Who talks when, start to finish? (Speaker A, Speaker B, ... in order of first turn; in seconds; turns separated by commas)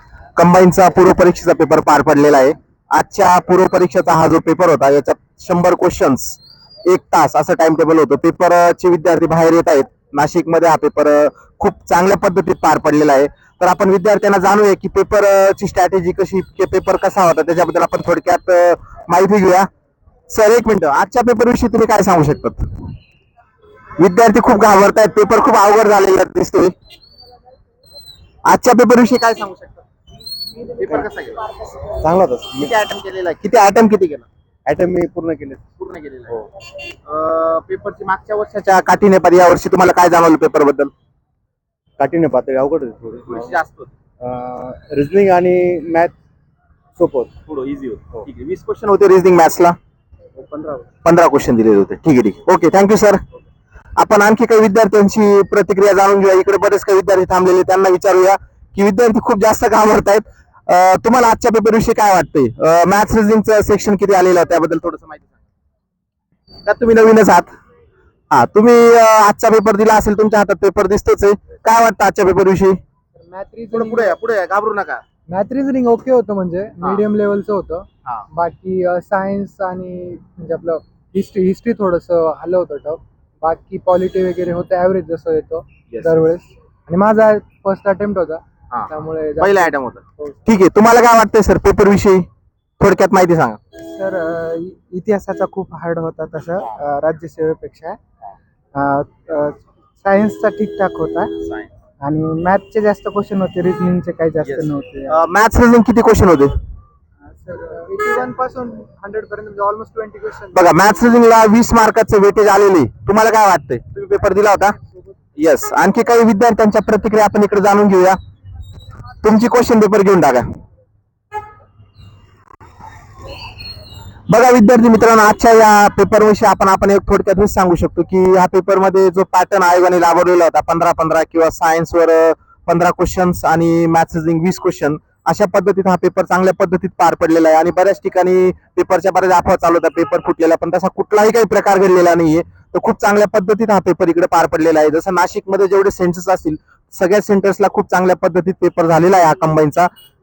Speaker A: 0.3-19.7, Speaker A: 20.3-22.6, Speaker A: 24.0-26.7, Speaker A: 28.5-29.8, Speaker A: 30.6-31.6, Speaker B: 31.9-32.7, Speaker A: 32.6-34.3, Speaker B: 34.6-35.7, Speaker A: 35.8-36.4, Speaker A: 37.0-40.9, Speaker B: 42.0-43.5, Speaker A: 43.2-43.9, Speaker B: 44.2-46.1, Speaker B: 47.0-47.3, Speaker A: 47.5-49.8, Speaker B: 50.4-50.8, Speaker A: 51.0-53.2, Speaker A: 54.0-65.3, Speaker A: 66.7-67.5, Speaker A: 68.3-72.8, Speaker C: 73.1-74.2, Speaker A: 73.7-75.0, Speaker C: 75.3-90.4, Speaker A: 85.9-86.1, Speaker A: 88.7-92.2, Speaker A: 92.8-93.6, Speaker C: 93.8-98.0, Speaker C: 98.7-101.3, Speaker A: 101.4-101.7, Speaker C: 102.0-105.2, Speaker A: 104.4-106.5, Speaker C: 107.3-110.7, Speaker A: 110.5-114.8, Speaker A: 115.4-118.2, Speaker A: 119.2-120.5, Speaker A: 124.3-149.9